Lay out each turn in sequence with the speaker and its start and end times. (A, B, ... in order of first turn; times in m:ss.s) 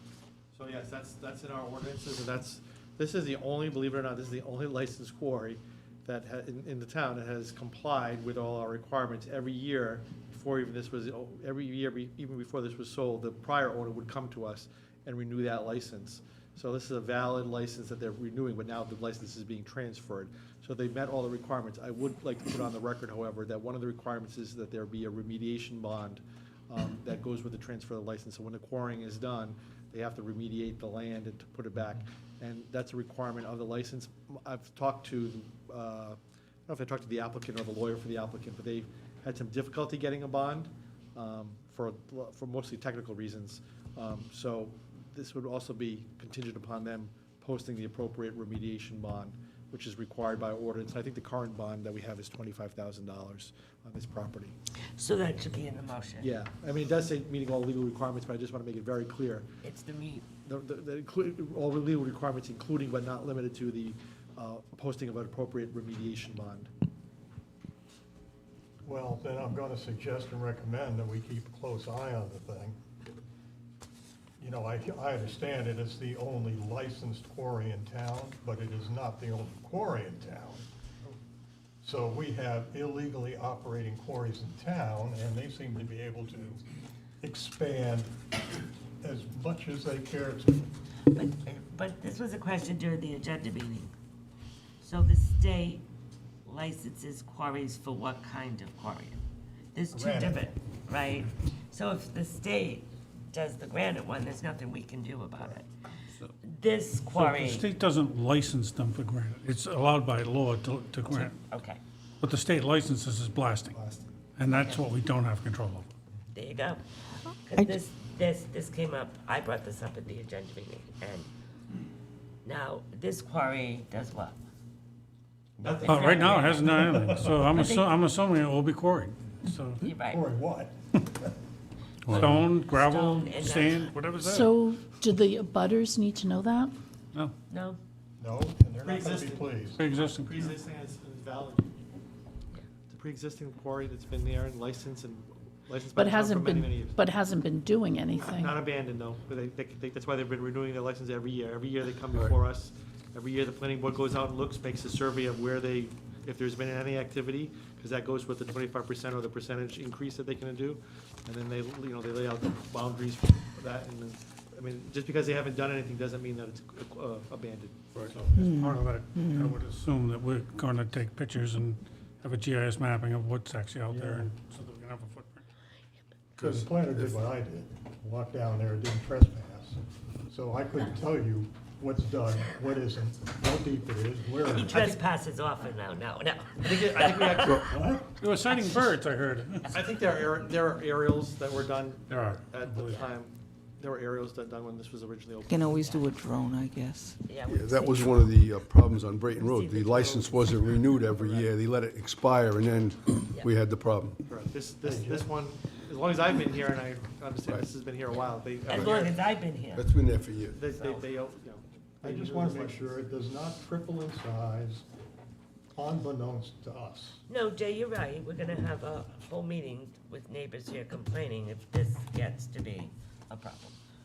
0:00.5-0:54.6 A
0:55.0-0:56.3 B
0:56.2-0:59.5 A
0:59.6-1:00.3 B
1:00.4-1:06.7 A
1:08.8-1:12.8 C
1:14.4-1:20.7 C
1:21.8-1:26.6 C
1:27.2-1:28.1 C
1:29.0-1:30.7 C
1:31.1-1:33.9 B
1:34.8-1:35.8 B
1:36.4-1:39.2 B
1:39.8-1:45.7 B
1:39.9-1:40.5 C
1:46.4-1:47.7 B
1:47.1-1:51.4 D
1:51.1-1:51.8 B
1:52.2-1:53.8 D
1:53.7-1:54.2 A
1:54.4-1:55.9 D
1:54.5-1:54.8 B
1:56.3-1:56.8 B
1:57.4-2:01.3 B
2:02.4-2:04.4 B
2:05.6-2:06.0 C
2:05.6-2:06.6 A
2:05.6-2:06.8 B
2:05.8-2:09.9 D
2:06.6-2:07.5 C
2:07.5-2:07.9 B
2:09.8-2:10.2 B
2:10.0-2:10.7 C
2:12.1-2:14.6 D
2:12.7-2:14.3 B
2:14.3-2:16.7 E
2:17.5-2:17.8 B
2:18.2-2:19.8 C
2:18.8-2:21.7 A
2:19.8-2:20.5 D
2:22.9-2:27.0 A
2:25.9-2:28.6 E
2:28.1-2:48.4 A
2:48.2-2:55.4 D
2:48.4-2:49.6 F
2:53.9-2:54.3 C
2:56.4-2:57.3 G
2:56.4-3:05.0 C
3:04.5-3:07.7 B
3:06.6-3:08.0 A
3:08.2-3:09.8 D
3:08.5-3:08.8 B
3:09.7-3:16.0 A
3:12.1-3:13.0 D
3:15.5-3:17.2 F
3:15.6-3:16.1 B
3:17.3-3:18.4 B
3:17.5-3:24.2 G
3:19.3-3:20.7 B
3:21.2-3:21.5 A
3:24.3-3:29.2 A
3:24.8-3:25.4 C
3:28.7-3:29.9 B
3:28.7-3:29.0 G
3:29.7-3:30.6 G
3:30.5-3:33.0 A
3:30.7-3:31.1 B
3:32.0-3:34.9 C
3:35.7-3:37.2 C
3:37.3-3:43.8 B